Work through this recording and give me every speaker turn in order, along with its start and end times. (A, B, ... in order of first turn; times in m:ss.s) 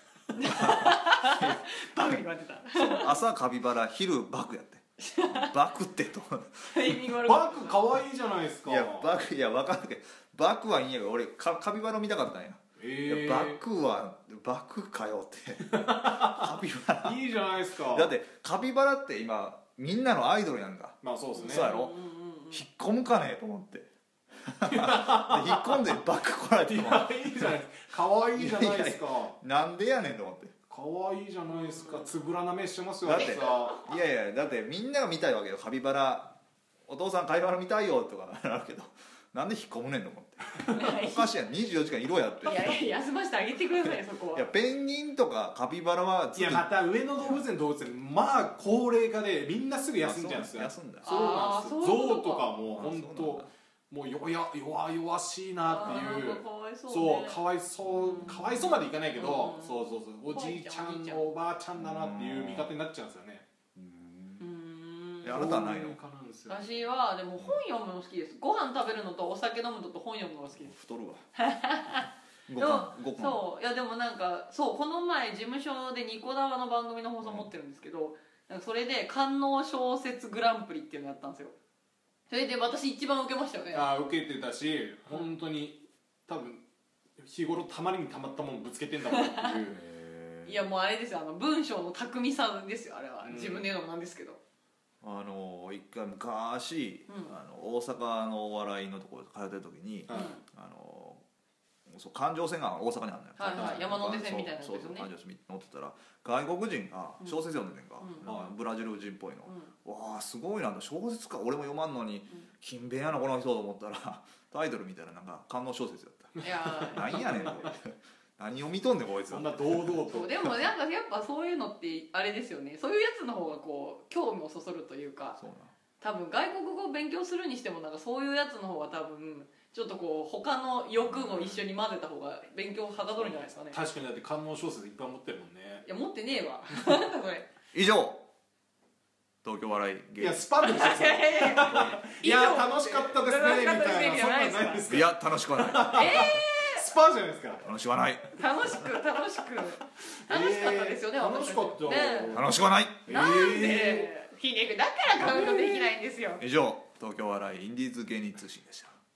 0:00.3-0:03.2 A
0:00.4-0:07.0 B
0:05.0-0:05.5 A
0:06.7-0:07.8 A
0:07.2-0:09.1 C
0:08.6-0:17.2 B
0:12.8-0:13.6 C
0:15.7-0:18.1 C
0:17.9-0:22.0 B
0:21.0-0:21.7 C
0:21.4-0:22.6 A
0:22.5-0:27.6 B
0:24.6-0:26.0 C
0:26.7-0:29.4 C
0:28.3-0:30.5 B
0:30.7-0:33.8 C
0:31.5-0:32.1 A
0:33.0-0:36.4 B
0:33.1-0:33.9 A
0:36.9-0:42.8 B
0:40.7-0:41.3 A
0:42.4-0:44.5 A
0:43.8-0:47.4 B
0:46.3-1:03.4 C
0:50.0-0:51.6 B
0:51.0-0:52.5 A
0:52.7-0:53.5 B
0:55.7-0:58.3 A
0:58.1-0:58.9 B
0:59.2-1:01.3 A
1:01.8-1:02.7 B
1:03.7-1:04.5 B
1:04.4-1:05.7 A
1:05.2-1:06.0 B
1:05.3-1:06.9 C
1:06.5-1:10.7 A
1:07.4-1:07.6 B
1:10.6-1:11.2 B
1:11.3-1:21.6 A
1:12.5-1:13.4 B
1:17.2-1:17.5 B
1:22.3-1:23.9 A
1:23.7-1:26.6 C
1:27.2-1:29.8 C
1:29.1-1:29.5 A
1:29.6-1:30.6 B
1:30.4-1:34.4 A
1:33.2-1:33.7 C
1:35.0-1:41.2 B
1:37.1-1:37.3 A
1:40.1-1:40.3 C
1:40.1-1:40.4 A
1:41.9-1:56.4 B
1:43.4-1:45.1 A
1:43.6-1:43.8 C
1:48.0-1:48.2 A
1:48.2-1:48.5 C
1:56.4-1:57.6 A
1:56.8-1:57.7 C
1:56.9-2:00.0 B
1:59.3-2:00.4 C
2:00.1-2:05.4 A
2:05.4-2:05.7 B
2:06.0-2:13.8 A
2:11.0-2:11.7 B
2:13.6-2:15.8 C
2:15.8-2:17.5 A
2:17.7-2:18.2 B
2:19.4-2:20.4 B
2:20.2-2:27.6 C
2:20.6-2:24.8 A
2:21.7-2:22.0 B
2:24.8-2:26.4 B
2:25.9-2:26.9 A
2:27.6-2:28.8 B
2:28.3-2:32.4 A
2:30.2-2:32.6 C
2:32.3-2:33.1 B
2:33.1-2:34.1 C
2:33.1-2:36.4 A
2:35.2-2:35.9 C
2:36.4-2:38.9 B